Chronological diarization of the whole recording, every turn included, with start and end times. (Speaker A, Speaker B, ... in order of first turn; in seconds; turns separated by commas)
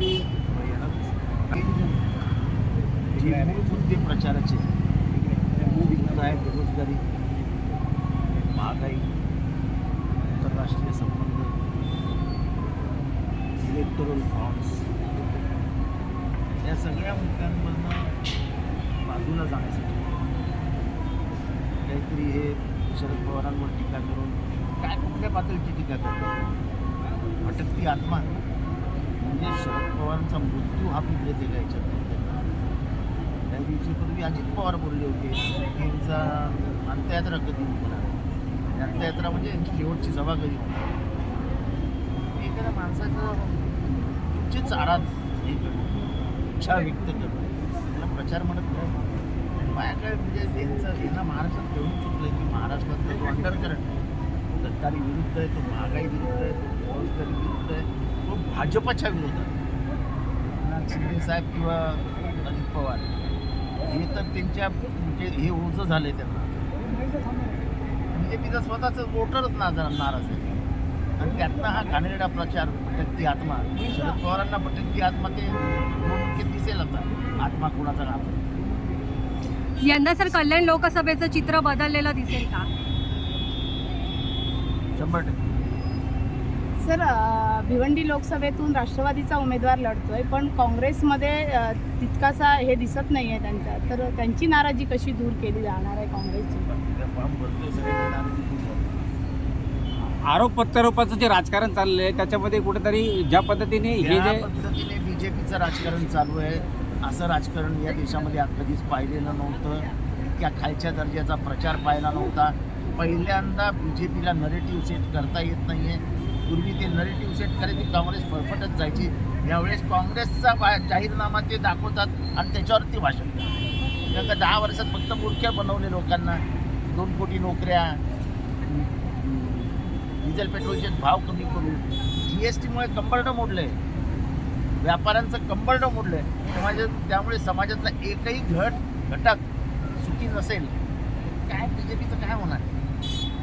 Speaker A: 0.4-1.9, Speaker A: 3.1-4.7, Speaker A: 5.6-7.0, Speaker A: 8.5-9.1, Speaker A: 10.4-11.6, Speaker A: 13.6-14.9, Speaker A: 16.6-18.1, Speaker A: 19.1-20.2, Speaker A: 21.8-26.4, Speaker A: 27.4-28.3, Speaker A: 29.2-32.5, Speaker A: 33.5-38.2, Speaker A: 38.7-41.0, Speaker A: 42.4-46.0, Speaker A: 46.6-49.0, Speaker A: 49.6-53.9, Speaker A: 54.5-59.5, Speaker A: 60.6-63.1, Speaker A: 63.8-66.7, Speaker A: 68.1-70.6, Speaker A: 71.2-78.4, Speaker B: 79.8-82.7, Speaker A: 85.0-85.4, Speaker C: 86.8-96.7, Speaker A: 96.7-98.9, Speaker D: 100.3-104.5, Speaker A: 104.0-123.5, Speaker A: 124.1-128.0, Speaker A: 128.7-133.8, Speaker A: 134.8-139.4, Speaker A: 140.0-140.7, Speaker A: 141.5-142.7